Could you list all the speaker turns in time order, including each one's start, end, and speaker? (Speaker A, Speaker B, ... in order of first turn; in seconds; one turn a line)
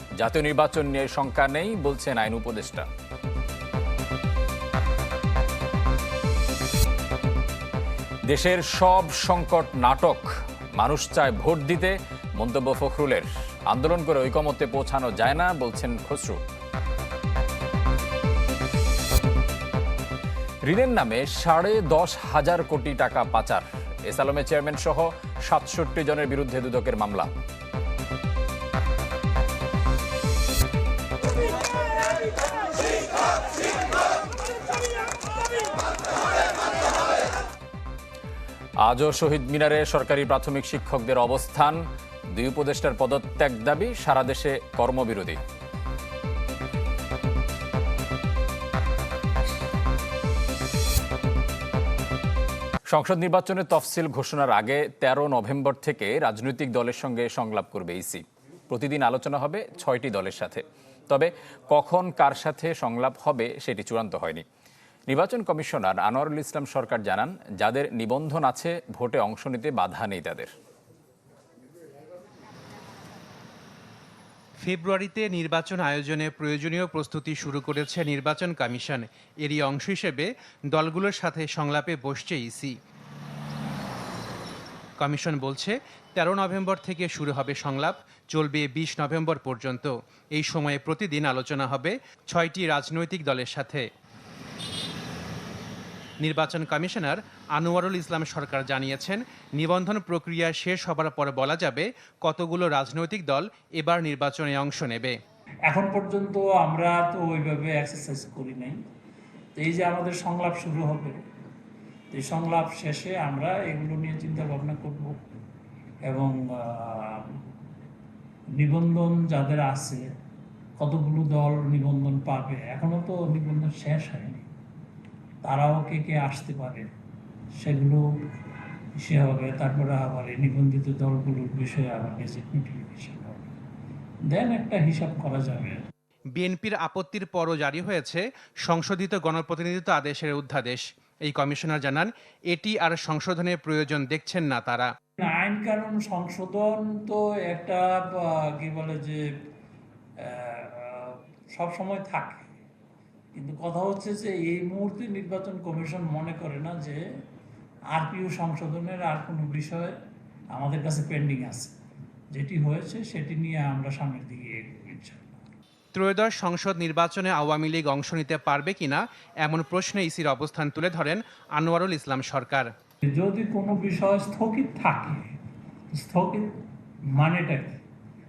Speaker A: 0.2-2.9
Speaker A: 8.3-16.4
Speaker A: 20.6-27.3
Speaker A: 38.8-45.4
Speaker A: 52.9-64.4
Speaker A: 65.1-70.5
Speaker B: 74.6-82.8
Speaker B: 85.0-93.9
Speaker B: 96.2-105.2
Speaker C: 105.7-108.8
Speaker C: 109.6-111.2
Speaker C: 112.1-115.2
Speaker C: 116.1-117.4
Speaker C: 118.6-120.1
Speaker C: 120.8-124.5
Speaker C: 125.5-126.9
Speaker C: 127.6-128.1
Speaker C: 129.0-133.5
Speaker C: 134.3-135.8
Speaker B: 136.4-144.9
Speaker C: 145.2-149.2
Speaker C: 150.2-152.5
Speaker C: 153.3-157.0
Speaker C: 157.9-159.9
Speaker C: 160.5-161.8
Speaker C: 162.3-165.4
Speaker B: 165.9-172.7
Speaker C: 173.1-175.2
Speaker C: 175.9-176.5
Speaker C: 177.2-177.8